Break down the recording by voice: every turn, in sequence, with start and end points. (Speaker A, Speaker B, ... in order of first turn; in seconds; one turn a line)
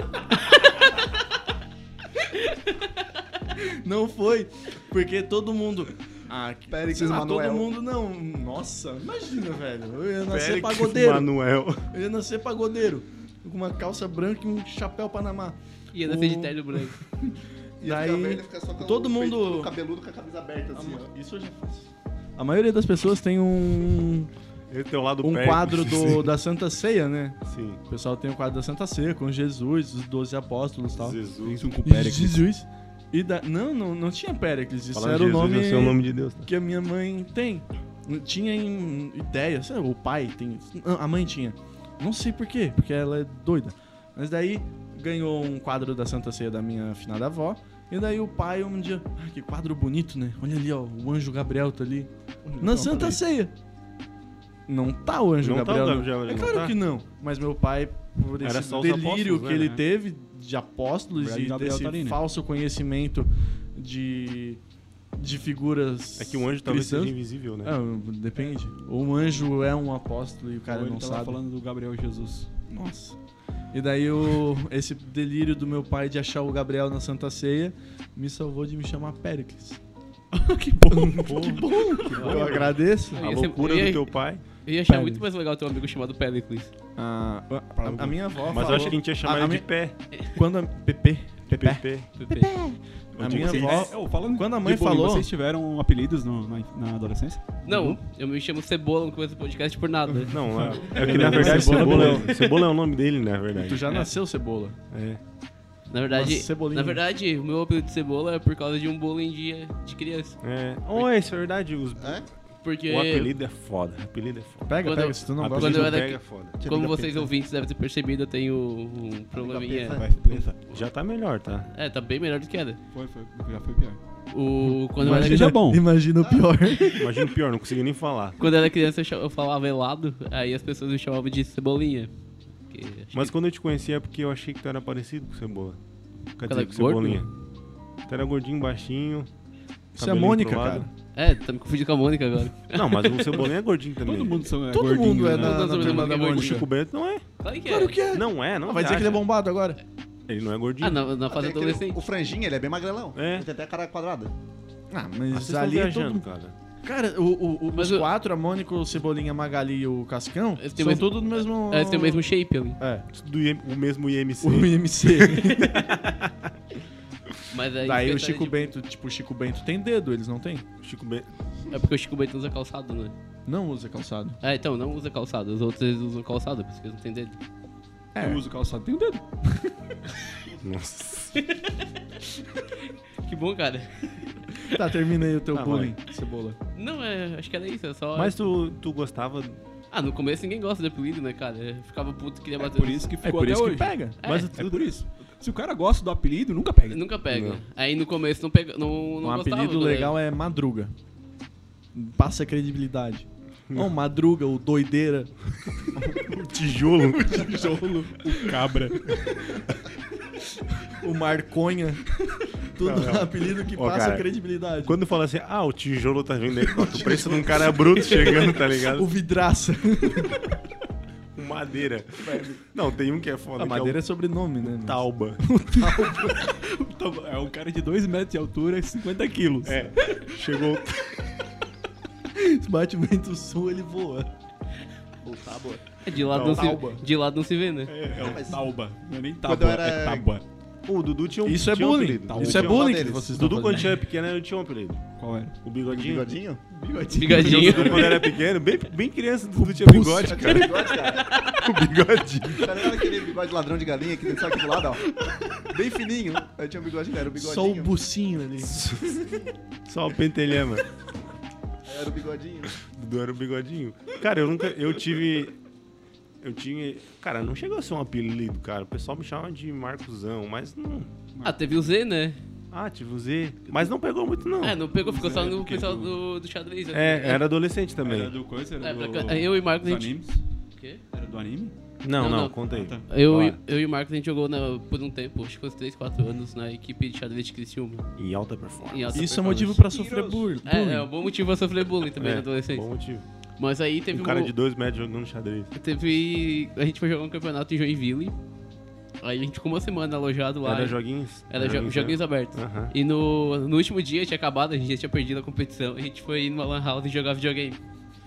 Speaker A: 2.4-2.7
Speaker B: 3.6-11.3
Speaker C: 6.7-7.7
Speaker D: 10.3-11.9
Speaker B: 11.9-19.7
Speaker A: 15.9-17.0
Speaker C: 17.8-21.1
Speaker B: 20.8-24.3
Speaker D: 24.7-26.3
Speaker B: 25.2-31.2
Speaker D: 27.4-27.8
Speaker D: 31.0-31.6
Speaker E: 31.4-32.4
Speaker B: 31.8-53.5
Speaker D: 34.9-36.5
Speaker E: 52.5-53.2
Speaker B: 54.7-64.6
Speaker D: 55.4-56.8
Speaker D: 58.4-59.8
Speaker E: 61.1-62.2
Speaker B: 65.2-71.4
Speaker D: 66.2-67.7
Speaker E: 70.7-72.5
Speaker B: 72.7-73.2
Speaker B: 73.7-79.8
Speaker E: 80.3-82.6
Speaker B: 80.9-83.2
Speaker D: 81.3-84.4
Speaker A: 83.1-86.7
Speaker B: 84.9-85.2
Speaker B: 87.0-95.3
Speaker E: 87.8-89.0
Speaker D: 88.5-90.0
Speaker D: 91.5-92.1
Speaker A: 92.2-92.6
Speaker D: 93.2-93.9
Speaker E: 93.3-98.0
Speaker A: 97.7-100.8
Speaker B: 100.2-102.4
Speaker D: 100.3-103.9
Speaker E: 100.5-102.3
Speaker A: 101.3-102.6
Speaker B: 103.6-104.8
Speaker D: 104.9-105.2
Speaker A: 105.9-110.4
Speaker B: 106.1-107.0
Speaker D: 110.4-114.8
Speaker C: 112.0-112.3
Speaker A: 112.6-113.3
Speaker B: 114.7-117.2
Speaker A: 114.8-120.8
Speaker D: 115.4-116.6
Speaker C: 116.7-117.0
Speaker C: 119.3-120.1
Speaker E: 119.9-120.6
Speaker D: 120.7-121.7
Speaker A: 121.7-122.8
Speaker E: 122.9-124.0
Speaker A: 124.3-125.5
Speaker E: 125.0-125.8
Speaker B: 125.0-127.1
Speaker C: 126.2-126.5
Speaker D: 127.0-128.4
Speaker A: 128.4-132.1
Speaker A: 132.7-133.3
Speaker D: 133.1-135.8
Speaker D: 136.4-137.3
Speaker A: 136.4-137.3
Speaker D: 138.1-139.3
Speaker B: 139.9-140.9
Speaker D: 140.0-140.9
Speaker A: 141.2-143.4
Speaker D: 142.7-144.5
Speaker E: 144.0-145.9
Speaker B: 144.7-146.7
Speaker A: 145.3-146.7
Speaker D: 145.9-147.2
Speaker A: 147.4-148.0
Speaker B: 147.7-149.8
Speaker D: 148.1-149.2
Speaker D: 150.3-151.0
Speaker A: 150.8-152.0
Speaker C: 151.3-154.3
Speaker D: 153.2-153.5
Speaker B: 154.9-156.2
Speaker D: 155.3-156.5
Speaker B: 156.8-163.1
Speaker A: 157.7-158.1
Speaker A: 160.6-162.8
Speaker D: 163.1-166.5
Speaker B: 164.4-166.0
Speaker A: 167.5-168.8
Speaker B: 167.8-170.7
Speaker D: 170.8-171.3
Speaker A: 171.7-173.1
Speaker B: 173.5-174.4
Speaker A: 174.4-177.4
Speaker B: 178.2-178.5
Speaker E: 178.2-179.2
Speaker B: 179.4-179.7
Speaker D: 180.6-181.4
Speaker A: 181.3-184.8
Speaker B: 184.6-186.6
Speaker D: 185.5-185.9
Speaker A: 186.8-188.4
Speaker D: 188.2-189.6
Speaker A: 189.9-193.1
Speaker E: 192.6-197.1
Speaker B: 193.2-194.2
Speaker A: 194.2-194.6
Speaker D: 194.2-194.8
Speaker A: 196.9-200.1
Speaker D: 197.3-197.6
Speaker B: 199.2-200.9
Speaker B: 201.9-206.3
Speaker D: 206.1-207.8
Speaker B: 207.1-209.7
Speaker E: 208.2-209.1
Speaker B: 210.4-215.0
Speaker D: 212.8-214.3
Speaker D: 214.8-219.1
Speaker B: 216.6-220.5
Speaker D: 221.3-224.0
Speaker B: 222.2-222.6
Speaker B: 223.6-226.5
Speaker D: 224.6-225.4
Speaker E: 226.1-229.9
Speaker D: 229.7-231.3
Speaker B: 232.3-234.3
Speaker C: 235.2-235.9
Speaker A: 236.0-237.9
Speaker D: 236.3-236.8
Speaker B: 236.4-237.0
Speaker E: 237.9-240.4
Speaker C: 238.2-238.7
Speaker C: 239.4-240.3
Speaker D: 240.9-245.0
Speaker B: 241.4-243.9
Speaker E: 242.3-242.7
Speaker C: 242.4-243.3
Speaker E: 245.2-245.6
Speaker D: 245.6-246.3
Speaker C: 245.9-246.6
Speaker B: 246.8-248.2
Speaker E: 246.8-248.3
Speaker A: 247.1-248.1
Speaker D: 247.5-252.8
Speaker B: 249.6-250.6
Speaker C: 250.2-251.4
Speaker A: 251.0-251.6
Speaker C: 252.5-255.2
Speaker C: 255.7-258.0
Speaker B: 257.3-259.5
Speaker D: 258.6-259.2
Speaker D: 259.9-260.9
Speaker C: 261.9-262.8
Speaker D: 262.8-265.6
Speaker D: 266.4-271.1
Speaker A: 271.4-272.4
Speaker D: 272.7-274.8
Speaker A: 274.6-277.4
Speaker E: 274.9-276.2
Speaker D: 276.9-278.3
Speaker E: 278.0-280.4
Speaker A: 278.8-280.1
Speaker E: 281.1-281.8
Speaker D: 282.0-283.6
Speaker A: 282.2-288.1
Speaker E: 282.7-283.1
Speaker D: 288.2-289.7
Speaker A: 288.9-289.8
Speaker B: 289.1-291.1
Speaker E: 289.8-290.5
Speaker A: 290.6-292.9
Speaker D: 292.2-293.3
Speaker A: 293.6-294.5
Speaker D: 294.1-295.7
Speaker A: 295.8-298.4
Speaker A: 299.2-307.8
Speaker D: 300.6-302.9